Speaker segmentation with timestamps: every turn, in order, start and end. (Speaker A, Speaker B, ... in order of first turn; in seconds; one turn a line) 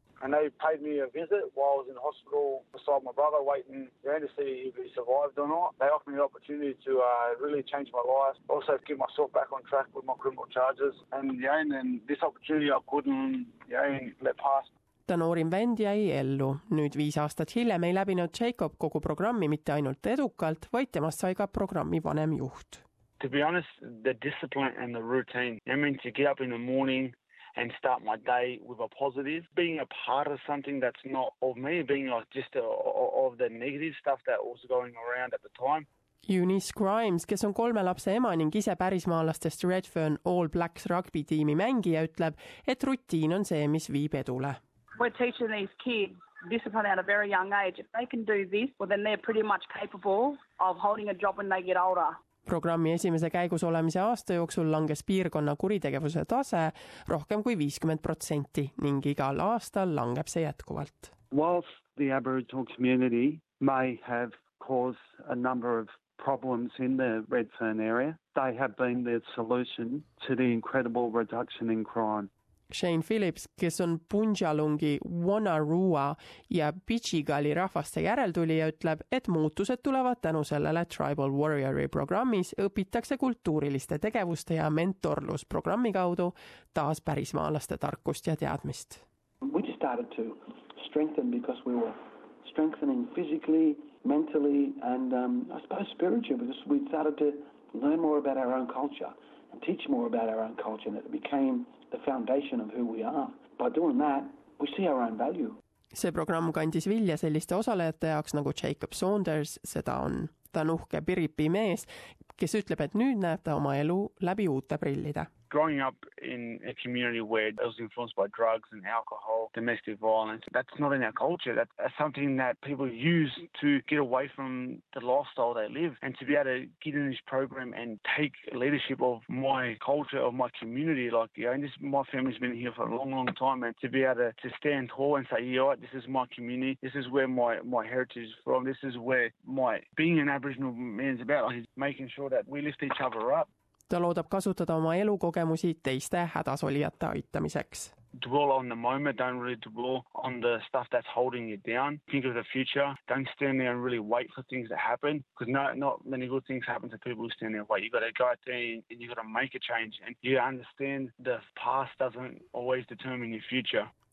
Speaker A: 0.2-14.7
Speaker B: 15.1-22.8
Speaker A: 23.2-35.9
Speaker B: 36.3-44.6
Speaker C: 45.0-52.2
Speaker B: 52.5-61.1
Speaker D: 61.3-72.3
Speaker B: 72.7-89.0
Speaker E: 89.5-105.6
Speaker B: 106.0-115.3
Speaker A: 115.5-143.5
Speaker B: 143.9-147.9
Speaker A: 148.2-163.9